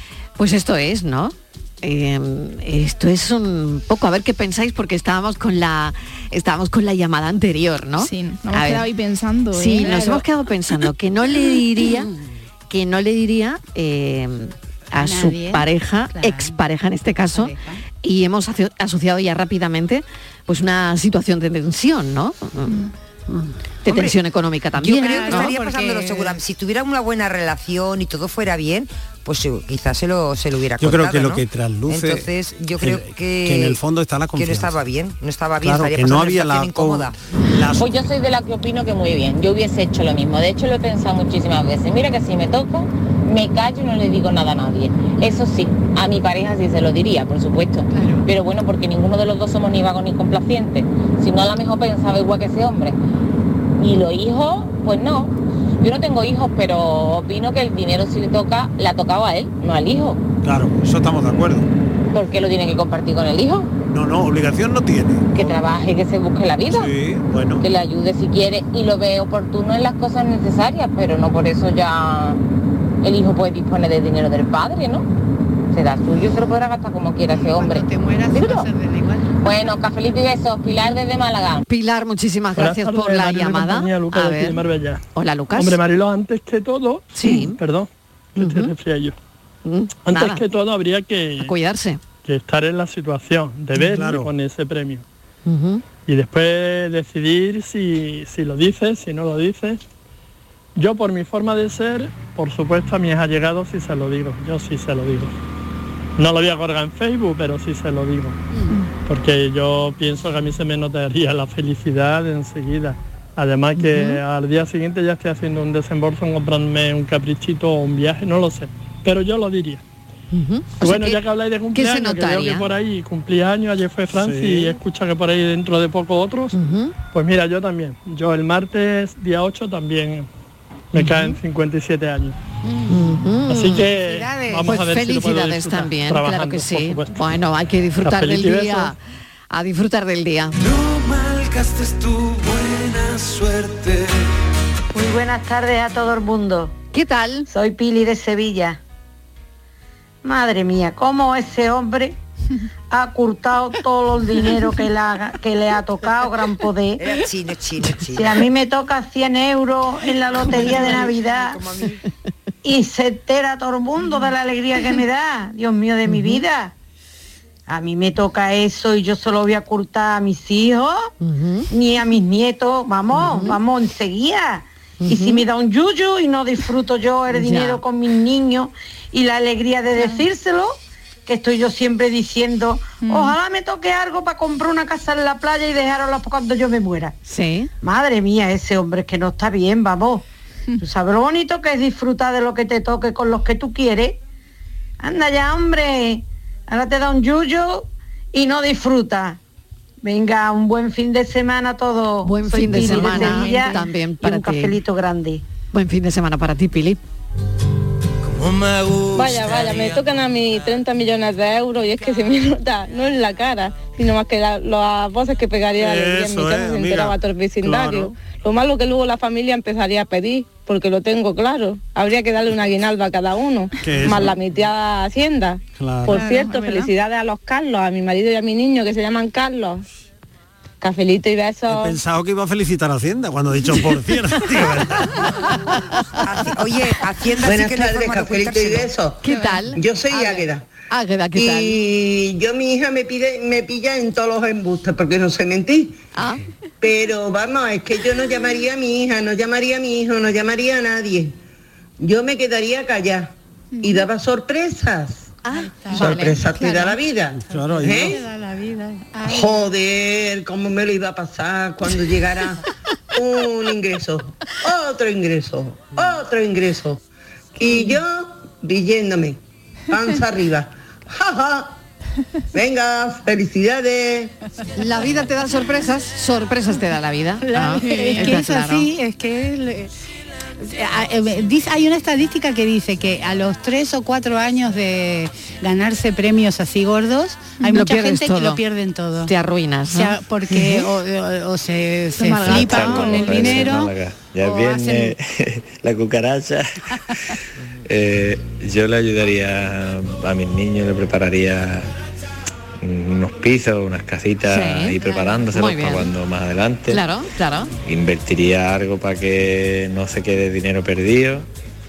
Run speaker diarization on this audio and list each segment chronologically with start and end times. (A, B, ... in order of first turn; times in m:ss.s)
0:00.4-0:08.9 A
0:08.0-0:10.0 B
0:09.5-0:12.1 A
0:12.7-0:22.8 A
0:15.0-0:16.5 C
0:17.3-0:17.8 C
0:23.8-0:25.5 A
0:24.8-0:26.3 C
0:24.8-0:33.8 D
0:30.8-0:34.8 E
0:34.3-0:37.2 D
0:35.6-0:37.9 E
0:37.8-0:53.0 F
0:47.9-0:48.2 C
0:53.8-1:00.2 F
1:00.4-1:01.6 E
1:02.1-1:03.7 F
1:03.9-1:05.6 E
1:05.3-1:06.9 F
1:06.7-1:07.6 E
1:07.6-1:12.4 F
1:13.0-1:15.0 F
1:15.7-1:18.7 F
1:17.3-1:19.3 C
1:19.4-1:21.6 F
1:21.7-1:24.6 A
1:22.5-1:25.0 G
1:25.1-1:25.8 A
1:25.5-1:29.1 G
1:27.1-1:27.6 A
1:28.4-1:28.7 A
1:29.6-1:30.4 A
1:30.0-1:31.5 G
1:31.4-1:32.0 A
1:32.2-1:35.0 G
1:33.8-1:34.3 E
1:35.4-1:35.8 A
1:36.1-1:39.8 G
1:40.8-1:45.3 G
1:46.2-1:48.4 G
1:49.0-1:59.8 G
1:53.8-1:54.2 A
2:00.3-2:02.7 A
2:00.8-2:06.6 G
2:04.1-2:04.8 E
2:06.5-2:06.9 A
2:07.1-2:10.3 G
2:10.9-2:12.3 G
2:11.0-2:11.4 A
2:12.9-2:13.9 A
2:13.5-2:17.4 G
2:14.5-2:19.0 A
2:18.0-2:18.9 G
2:19.5-2:20.6 A
2:25.4-2:26.6 H
2:26.9-2:27.5 A
2:27.5-2:28.7 H
2:30.5-2:31.9 H
2:33.3-2:33.7 H
2:34.9-2:37.0 H
2:37.0-2:38.4 D
2:38.3-2:40.4 H
2:41.0-2:41.3 H
2:44.4-2:46.7 H
2:46.0-2:46.4 A
2:47.8-2:48.3 H
2:51.2-2:51.7 A
2:51.8-2:54.4 H
2:53.1-2:53.6 A
2:55.0-2:55.5 A
2:55.2-2:58.1 H
2:57.3-2:57.8 A
2:59.3-3:00.2 I
3:00.2-3:00.6 H
3:01.6-3:02.0 H
3:03.0-3:03.4 I
3:03.2-3:05.9 H
3:06.7-3:07.1 H
3:07.3-3:07.7 A
3:12.2-3:14.1 H
3:15.1-3:15.6 H
3:16.7-3:17.7 H
3:18.4-3:19.3 H
3:20.1-3:23.7 H
3:22.2-3:24.8 A
3:22.8-3:23.6 I
3:24.2-3:25.4 H
3:25.7-3:27.0 A
3:29.1-3:49.8 I
3:35.7-3:38.1 E
3:43.8-3:44.4 E
3:45.7-3:46.3 E
3:46.1-3:46.8 C
3:50.8-3:52.0 I
3:51.6-3:55.5 E
3:56.2-3:58.9 D
3:57.4-3:59.2 J
3:59.2-4:00.4 A
3:59.8-4:00.6 J
4:00.9-4:01.9 A
4:01.3-4:06.0 J
4:06.1-4:06.4 A
4:06.8-4:11.3 J
4:12.0-4:15.3 J
4:15.4-4:16.9 A
4:15.5-4:16.2 C
4:16.0-4:18.1 J
4:17.4-4:18.2 E
4:17.5-4:19.7 C
4:19.2-4:22.6 J
4:23.2-4:27.0 J
4:27.6-4:29.4 J
4:29.9-4:31.7 J
4:32.5-4:34.3 J
4:34.8-4:38.9 A
4:37.4-4:39.9 C
4:40.6-4:49.3 C
4:47.7-4:48.6 A
4:49.2-4:50.9 A
4:49.9-4:55.1 C
4:52.2-4:53.6 A
4:52.3-4:56.6 K
4:57.8-5:01.9 K
5:02.8-5:07.0 K
5:04.5-5:06.1 A
5:06.9-5:07.7 A
5:07.8-5:11.5 K